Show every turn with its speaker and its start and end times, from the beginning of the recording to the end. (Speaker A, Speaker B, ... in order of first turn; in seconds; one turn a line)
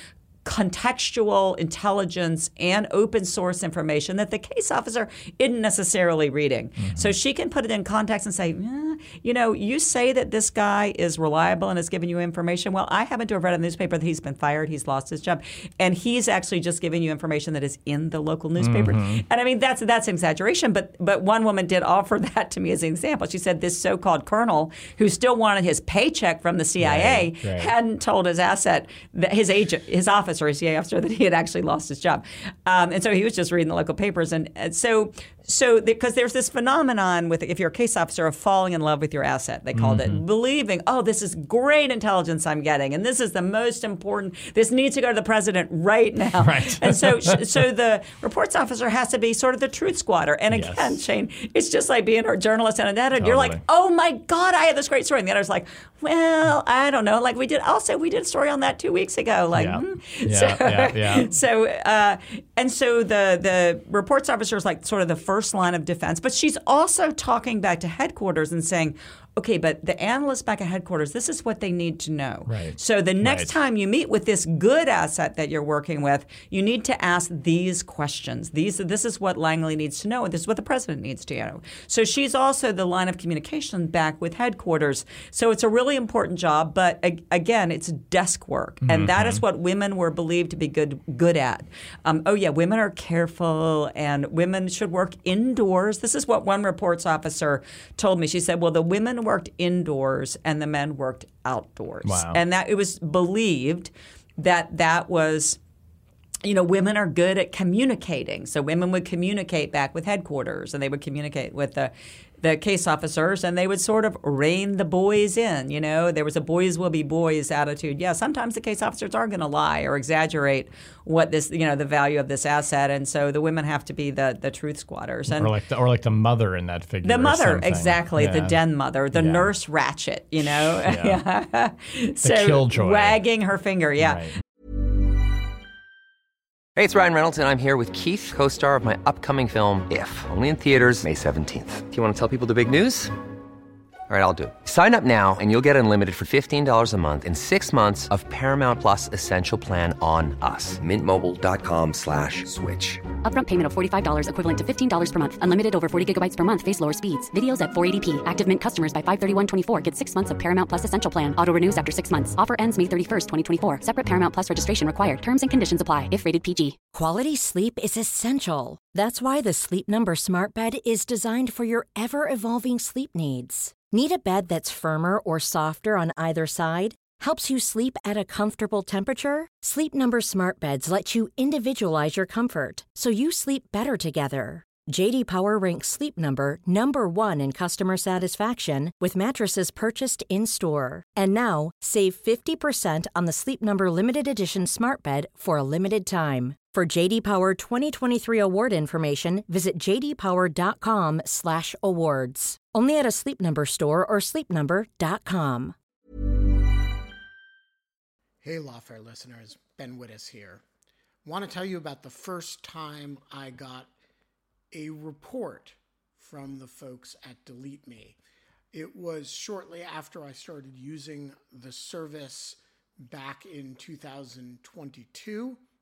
Speaker A: 0.5-105.6
Speaker B: 6.8-7.2
Speaker B: 18.6-19.2
Speaker B: 26.8-27.7
Speaker B: 39.7-40.2
Speaker B: 46.4-47.4
Speaker B: 50.5-51.0
Speaker B: 53.2-53.6
Speaker B: 59.5-61.4
Speaker B: 72.5-73.5
Speaker B: 88.8-89.4
Speaker B: 102.0-102.4
Speaker A: 106.4-125.5
Speaker B: 125.3-128.6
Speaker A: 127.0-134.3
Speaker B: 129.1-129.5
Speaker B: 130.4-131.2
Speaker B: 132.2-133.2
Speaker B: 134.0-134.4
Speaker C: 136.8-143.2
Speaker C: 144.1-153.1
Speaker D: 153.2-166.8
Speaker E: 166.9-205.7
Speaker F: 208.4-210.6
Speaker F: 211.2-213.9
Speaker F: 214.7-218.2
Speaker F: 218.7-225.6